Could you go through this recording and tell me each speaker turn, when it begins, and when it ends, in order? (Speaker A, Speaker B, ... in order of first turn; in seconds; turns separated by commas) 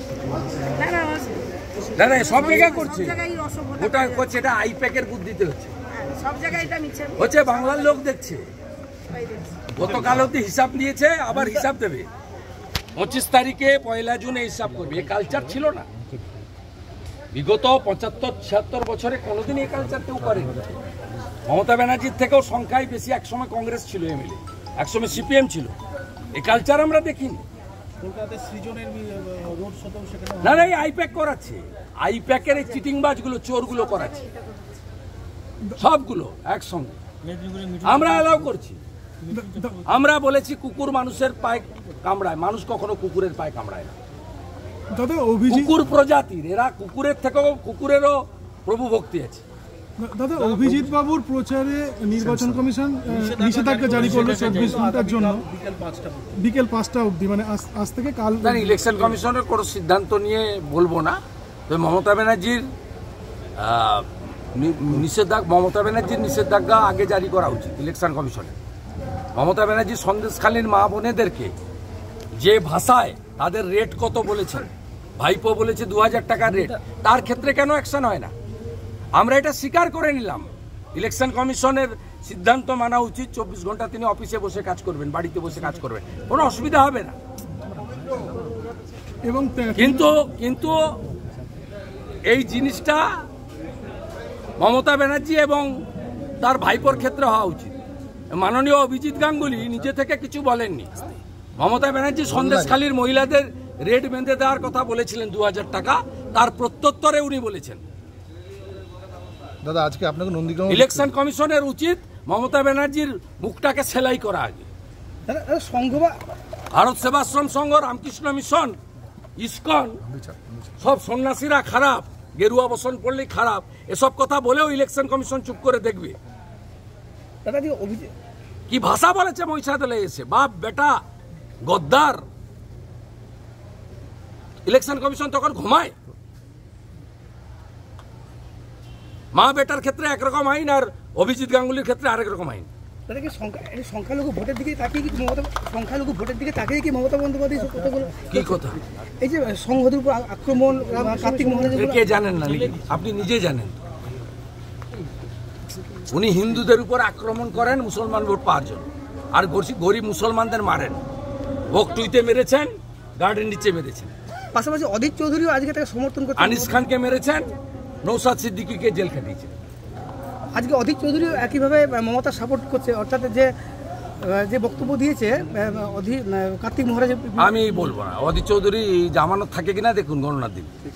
Speaker A: 0.8-1.4, Speaker B: 1.9-5.7, Speaker A: 3.2-3.8, Speaker A: 6.0-7.1, Speaker B: 7.2-8.5, Speaker B: 9.7-12.1, Speaker B: 12.9-15.9, Speaker B: 17.3-20.8, Speaker B: 21.4-25.7, Speaker B: 26.3-27.4, Speaker C: 28.0-30.5, Speaker B: 30.4-34.3, Speaker B: 35.8-37.0, Speaker B: 37.8-38.8, Speaker D: 39.3-39.8, Speaker B: 39.9-43.9, Speaker D: 44.9-45.7, Speaker B: 45.5-49.4, Speaker D: 50.0-55.5, Speaker C: 50.4-50.9, Speaker C: 53.1-56.3, Speaker E: 54.1-54.5, Speaker D: 56.3-58.8, Speaker B: 58.4-62.7, Speaker B: 63.6-68.5, Speaker B: 69.3-71.5, Speaker B: 72.4-78.3, Speaker B: 79.1-87.1, Speaker D: 89.2-90.1, Speaker B: 89.8-90.8, Speaker B: 92.3-93.2, Speaker B: 94.6-95.8, Speaker B: 96.4-97.8, Speaker B: 98.3-107.8, Speaker F: 102.3-102.8, Speaker F: 109.6-111.1, Speaker B: 110.7-114.7, Speaker E: 115.2-116.2, Speaker B: 116.7-118.8, Speaker B: 119.4-120.0, Speaker F: 120.2-120.5, Speaker B: 120.8-126.2, Speaker E: 127.5-128.1, Speaker B: 128.7-131.0, Speaker B: 131.6-132.2, Speaker B: 134.6-135.9, Speaker B: 139.3-142.7, Speaker E: 143.1-148.6, Speaker B: 148.3-148.8, Speaker E: 149.2-152.0, Speaker B: 151.7-153.8, Speaker B: 156.1-161.0, Speaker B: 161.7-164.1, Speaker E: 164.5-166.8, Speaker B: 166.4-167.5, Speaker B: 168.0-169.5, Speaker E: 170.5-173.5, Speaker E: 174.2-177.6, Speaker B: 177.4-180.7